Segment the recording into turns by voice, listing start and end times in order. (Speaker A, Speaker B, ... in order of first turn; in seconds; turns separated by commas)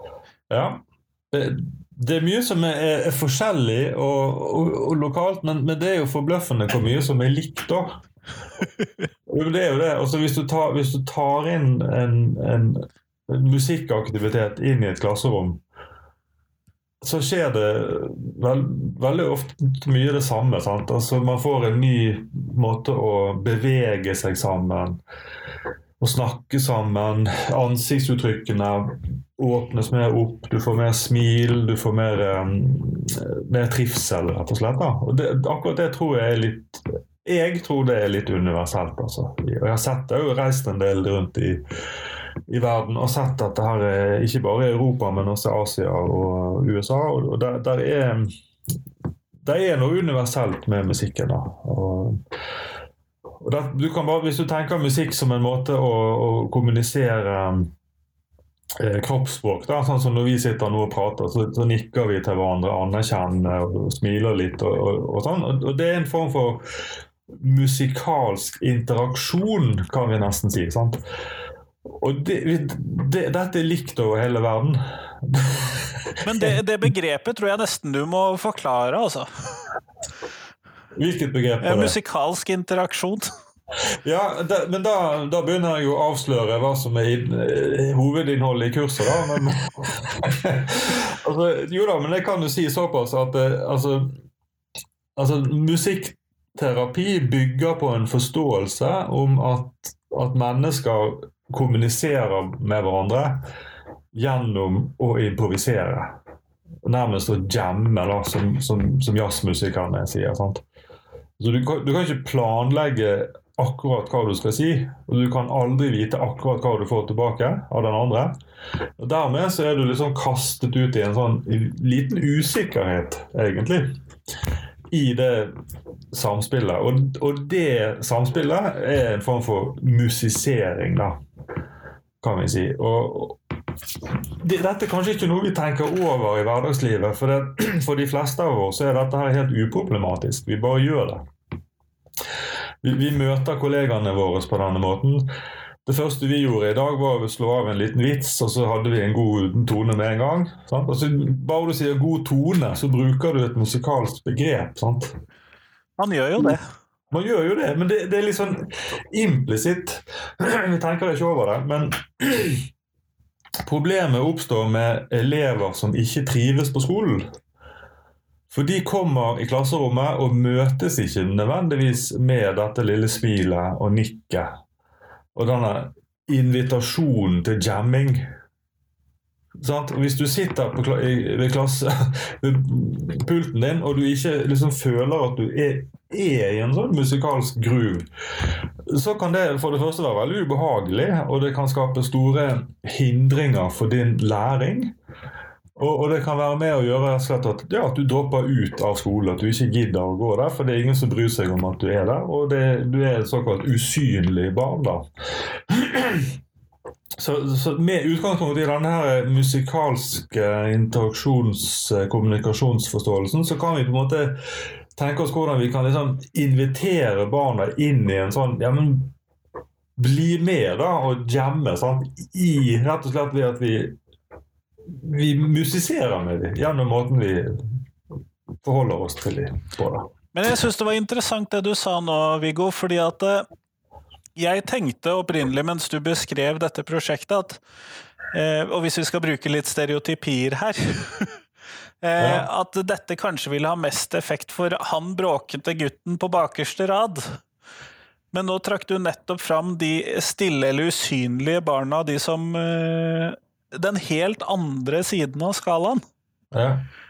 Speaker A: 0.5-8.0, Speaker A: 9.3-15.6, Speaker A: 17.0-25.0, Speaker A: 26.0-41.6, Speaker A: 42.5-48.3, Speaker A: 49.4-52.2, Speaker A: 53.4-57.7, Speaker A: 58.8-66.6, Speaker A: 67.3-71.0, Speaker A: 71.9-76.5, Speaker B: 76.2-79.3, Speaker A: 80.9-82.0, Speaker B: 81.6-83.3, Speaker A: 84.0-94.1, Speaker A: 95.2-103.4, Speaker A: 104.1-106.2, Speaker A: 106.8-110.7, Speaker A: 111.4-118.4, Speaker A: 119.0-123.9, Speaker A: 124.9-125.5, Speaker A: 126.1-131.2, Speaker A: 132.2-133.4, Speaker A: 133.9-141.2, Speaker A: 142.8-145.3, Speaker A: 145.8-155.1, Speaker B: 156.0-156.6, Speaker A: 157.1-162.7, Speaker A: 163.7-167.3, Speaker A: 168.5-174.6, Speaker A: 175.3-178.3, Speaker A: 179.6-188.1, Speaker A: 188.9-194.9, Speaker A: 195.8-205.1, Speaker A: 205.7-206.4, Speaker A: 207.2-214.4, Speaker A: 214.9-219.2, Speaker A: 220.0-224.0, Speaker A: 224.9-227.8, Speaker A: 228.6-230.1, Speaker B: 230.3-233.5, Speaker B: 234.4-237.6, Speaker B: 238.3-241.4, Speaker B: 242.0-247.4, Speaker A: 242.2-242.5, Speaker B: 248.3-256.0, Speaker A: 256.5-256.9